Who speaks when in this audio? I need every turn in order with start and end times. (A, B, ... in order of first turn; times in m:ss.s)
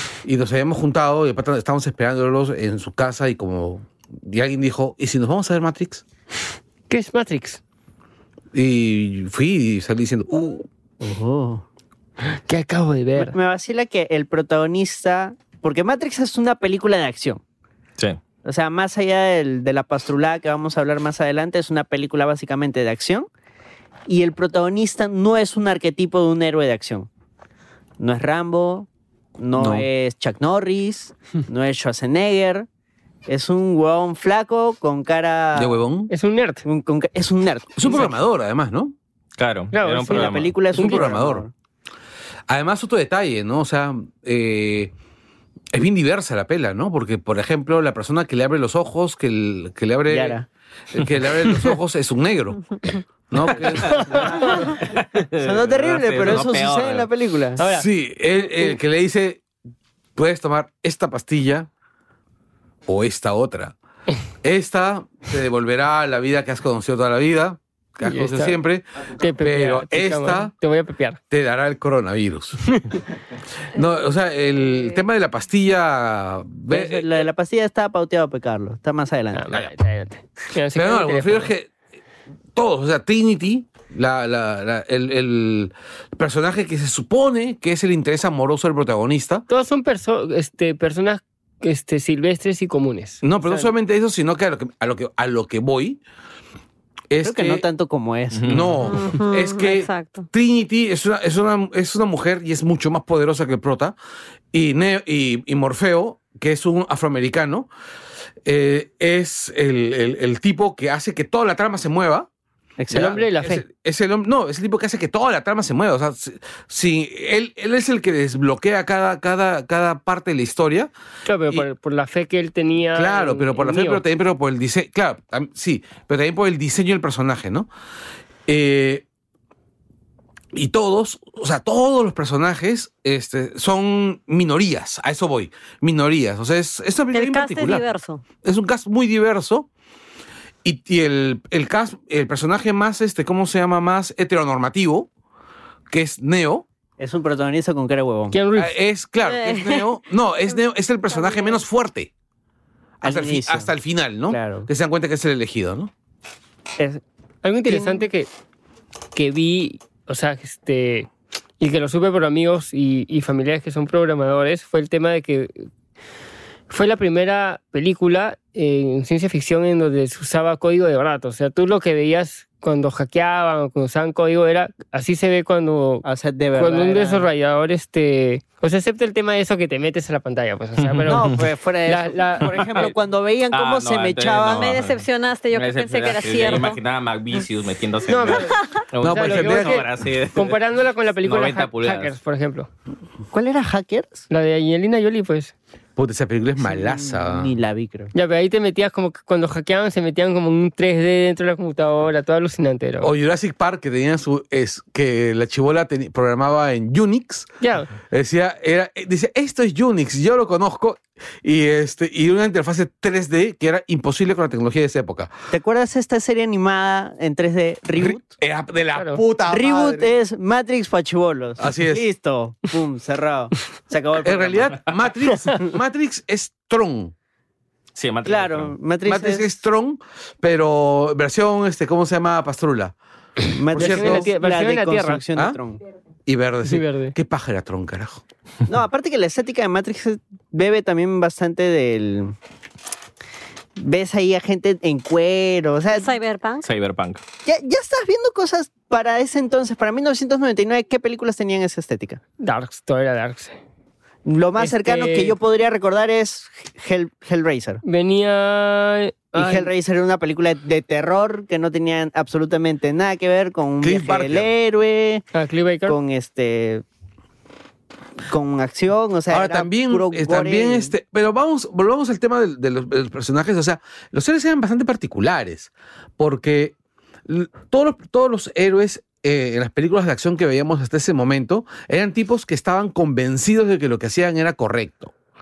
0:00.2-0:06.0 A
0:06.9-0:07.6 B
0:08.5-0:10.7 A
0:11.0-0:11.6 C
0:12.5-0:13.4 B
0:13.1-0:17.4 C
0:18.4-0:23.3 C
0:24.1-0:27.1 C
0:28.0-0:32.7 C
0:29.6-0:29.8 A
0:33.2-0:35.8 C
0:35.5-0:36.1 A
0:36.1-0:36.6 B
0:36.6-0:38.1 C
0:37.8-0:38.9 A
0:39.4-0:40.5 D
0:39.7-0:41.0 B
0:40.1-0:41.5 C
0:40.7-0:41.5 A
0:42.5-0:44.9 A
0:45.7-0:50.4 A
0:50.1-0:50.5 C
0:50.9-0:54.4 A
0:53.9-0:54.7 B
0:54.1-0:54.7 C
0:54.7-0:57.1 D
0:55.4-0:57.7 C
0:57.6-0:57.9 B
0:57.7-0:59.4 A
1:00.2-1:01.7 A
1:02.9-1:03.8 A
1:04.4-1:08.8 A
1:08.0-1:08.6 B
1:09.2-1:11.2 B
1:09.4-1:10.5 A
1:11.3-1:12.8 A
1:13.7-1:17.1 A
1:16.7-1:19.6 C
1:19.3-1:21.5 B
1:20.7-1:21.7 A
1:22.6-1:29.4 A
1:29.5-1:33.7 B
1:33.2-1:36.0 A
1:37.1-1:37.6 A
1:37.2-1:38.8 C
1:38.3-1:38.8 D
1:38.4-1:43.9 A
1:38.8-1:40.2 E
1:44.5-1:47.7 A
1:48.4-1:52.3 A
1:52.8-1:53.2 C
1:52.9-1:53.6 B
1:52.9-2:00.9 A
2:01.2-2:04.0 B
2:02.9-2:07.7 A
2:08.5-2:09.0 A
2:10.5-2:17.8 A
2:17.1-2:18.2 E
2:18.4-2:19.7 A
2:20.6-2:25.1 A
2:25.9-2:26.6 A
2:27.0-2:28.4 C
2:28.3-2:28.8 B
2:28.6-2:32.1 A
2:29.2-2:29.9 E
2:31.2-2:31.6 E
2:33.0-2:35.9 A
2:33.0-2:33.7 C
2:34.3-2:34.7 C
2:37.4-2:38.3 B
2:37.6-2:38.0 C
2:39.1-2:45.6 B
2:46.7-3:01.3 B
2:56.0-2:57.3 C
3:00.8-3:01.2 D
3:01.0-3:04.7 C
3:01.8-3:02.9 B
3:02.6-3:02.9 D
3:03.5-3:10.6 D
3:04.5-3:06.8 E
3:08.0-3:12.7 B
3:09.0-3:09.8 A
3:11.2-3:12.2 D
3:13.3-3:14.2 C
3:14.3-3:15.5 B
3:16.0-3:17.5 A
3:16.6-3:18.1 C
3:18.1-3:23.1 B
3:23.0-3:27.5 A
3:27.6-3:27.9 B
3:28.0-3:35.3 A
3:35.5-3:38.3 C
3:38.0-3:40.1 A
3:38.9-3:39.2 B
3:39.4-3:44.8 C
3:41.6-3:42.0 A
3:44.2-3:47.1 A
3:48.0-3:48.7 D
3:48.2-3:49.5 C
3:49.0-3:53.0 A
3:53.5-3:55.8 C
3:53.7-3:54.3 A
3:53.7-3:55.2 B
3:56.2-3:58.2 A
3:56.6-3:57.1 B
3:58.6-4:02.4 C
4:03.8-4:06.1 C
4:05.9-4:06.6 E
4:06.6-4:07.2 D
4:07.4-4:12.2 C
4:12.4-4:13.6 B
4:14.2-4:17.8 C
4:14.6-4:15.3 B
4:17.8-4:19.7 B
4:19.3-4:25.2 C
4:23.8-4:24.5 A
4:25.3-4:26.0 B
4:25.8-4:26.8 C
4:28.3-4:30.9 C
4:29.3-4:36.7 A
4:37.3-4:45.1 A